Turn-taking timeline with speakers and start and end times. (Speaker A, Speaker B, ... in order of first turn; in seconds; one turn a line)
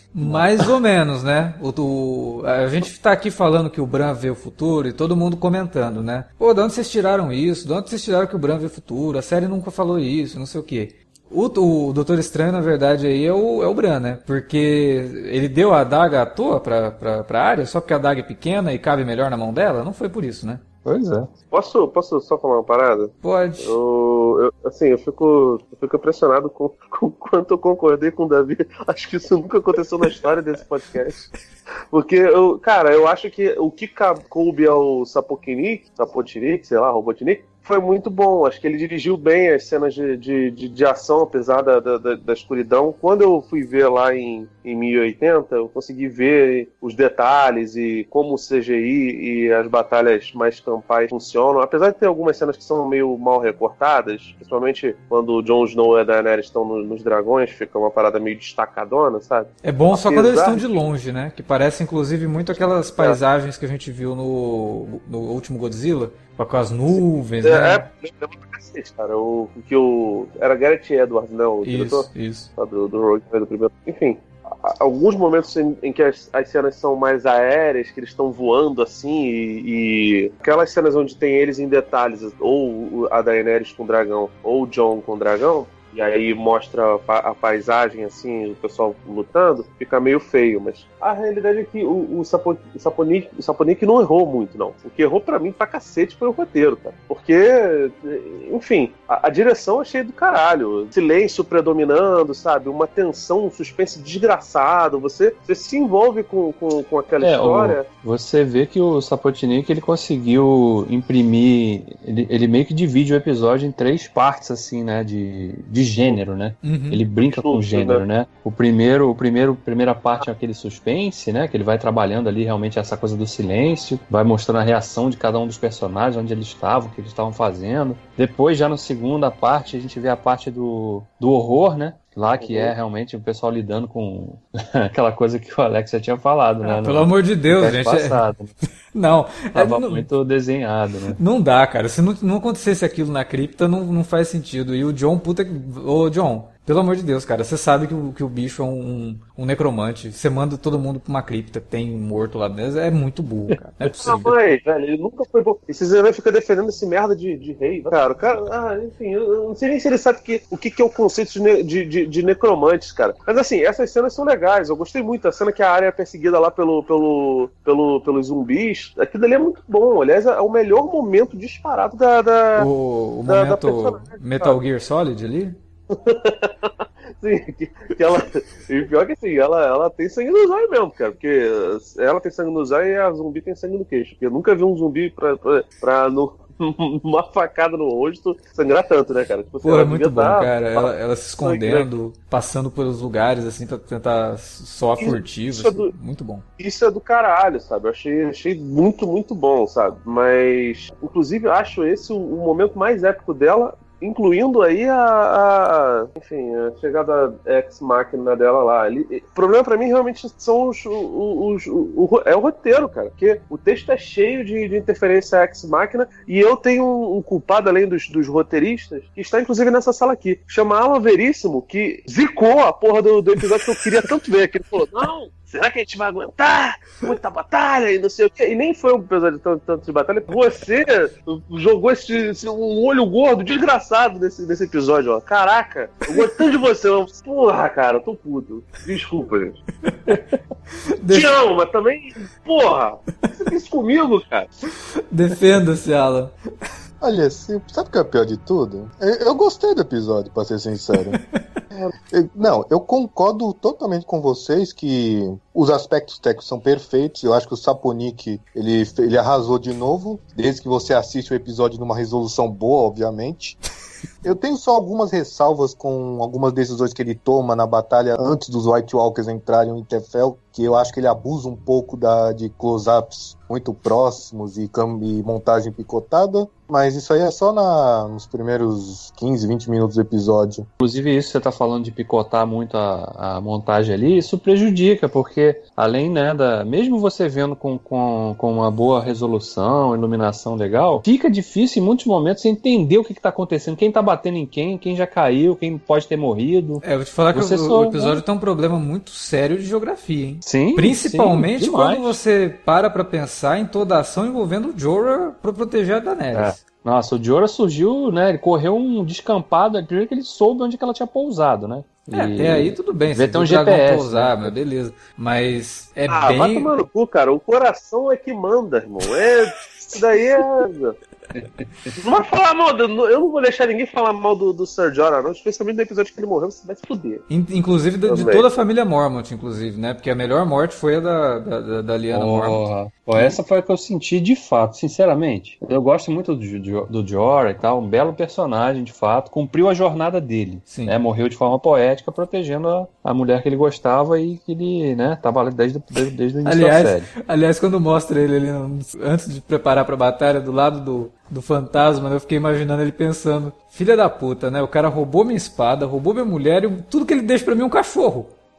Speaker A: 0.1-20.6
Speaker B: 0.2-0.6
Speaker B: 20.8-21.3
Speaker C: 21.5-31.3
Speaker A: 23.2-23.8
Speaker C: 31.9-60.8
Speaker A: 59.6-67.8
Speaker C: 67.4-107.8
Speaker A: 71.6-72.5
Speaker B: 107.2-138.5
Speaker A: 116.6-117.0
Speaker C: 117.2-118.0
Speaker C: 132.4-132.7
Speaker A: 136.6-138.2
Speaker A: 138.9-140.1
Speaker B: 139.5-141.2
Speaker A: 141.2-154.3
Speaker B: 153.5-153.9
Speaker C: 154.0-172.7
Speaker A: 172.6-175.6
Speaker C: 173.2-174.6
Speaker C: 175.9-191.9
Speaker A: 189.6-196.4
Speaker C: 195.0-195.9
Speaker C: 196.6-239.6
Speaker A: 239.9-240.2
Speaker A: 241.0-241.3
Speaker C: 241.1-244.5
Speaker A: 245.1-246.3
Speaker D: 247.0-251.2
Speaker D: 252.1-263.6
Speaker D: 264.2-280.7
Speaker B: 280.8-298.2
Speaker A: 296.8-306.6
Speaker B: 300.4-302.2
Speaker B: 306.3-314.5
Speaker A: 312.1-316.7
Speaker C: 316.1-320.9
Speaker B: 321.3-321.9
Speaker C: 322.0-327.2
Speaker A: 327.3-333.4
Speaker C: 328.1-328.5
Speaker B: 332.1-347.1
Speaker A: 340.7-341.0
Speaker A: 346.4-358.3